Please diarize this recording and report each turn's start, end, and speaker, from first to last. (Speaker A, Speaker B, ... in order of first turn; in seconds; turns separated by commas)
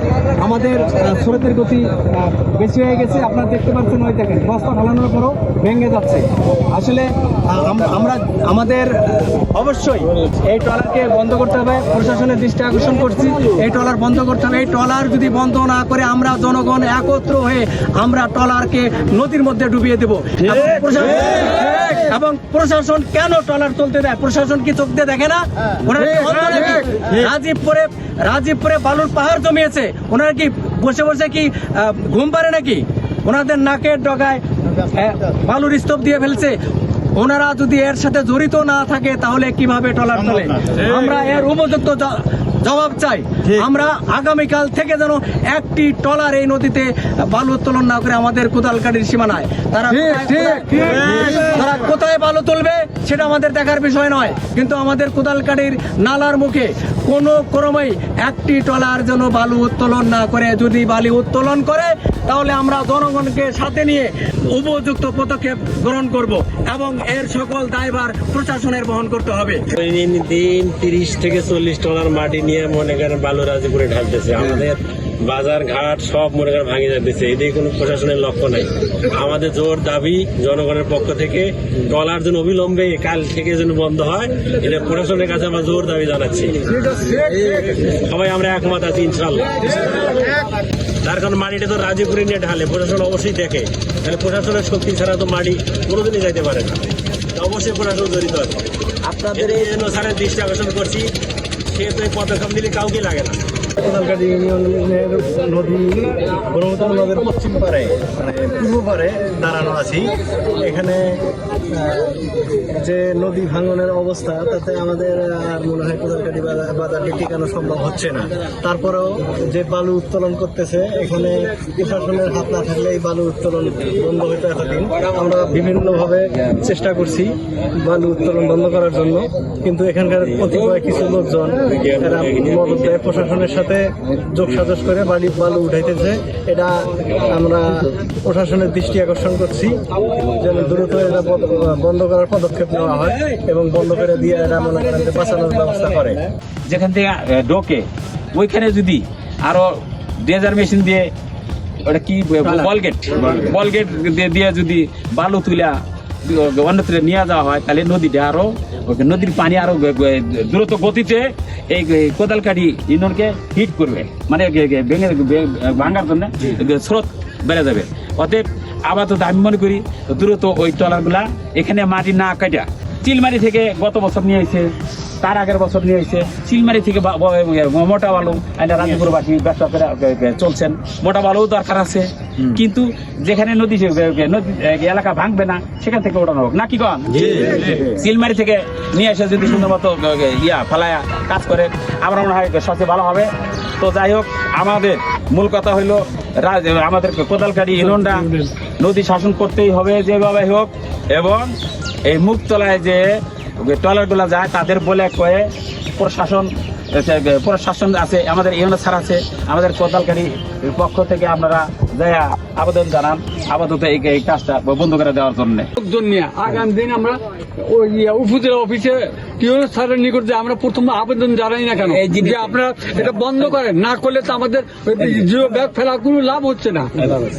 Speaker A: 0.4-36.6, Speaker A: 37.2-69.7, Speaker B: 50.7-51.0, Speaker C: 69.8-86.6, Speaker B: 86.7-87.8, Speaker C: 87.9-90.3, Speaker C: 91.0-96.8, Speaker C: 97.3-98.6, Speaker C: 99.3-101.1, Speaker C: 101.7-103.4, Speaker D: 103.8-111.2, Speaker D: 111.7-112.2, Speaker D: 112.8-146.2, Speaker C: 131.8-133.0, Speaker E: 146.7-151.1, Speaker E: 151.9-174.7, Speaker E: 175.2-198.3, Speaker E: 198.8-201.5, Speaker E: 202.1-203.1, Speaker E: 203.6-215.7, Speaker B: 215.8-226.9, Speaker E: 221.9-222.6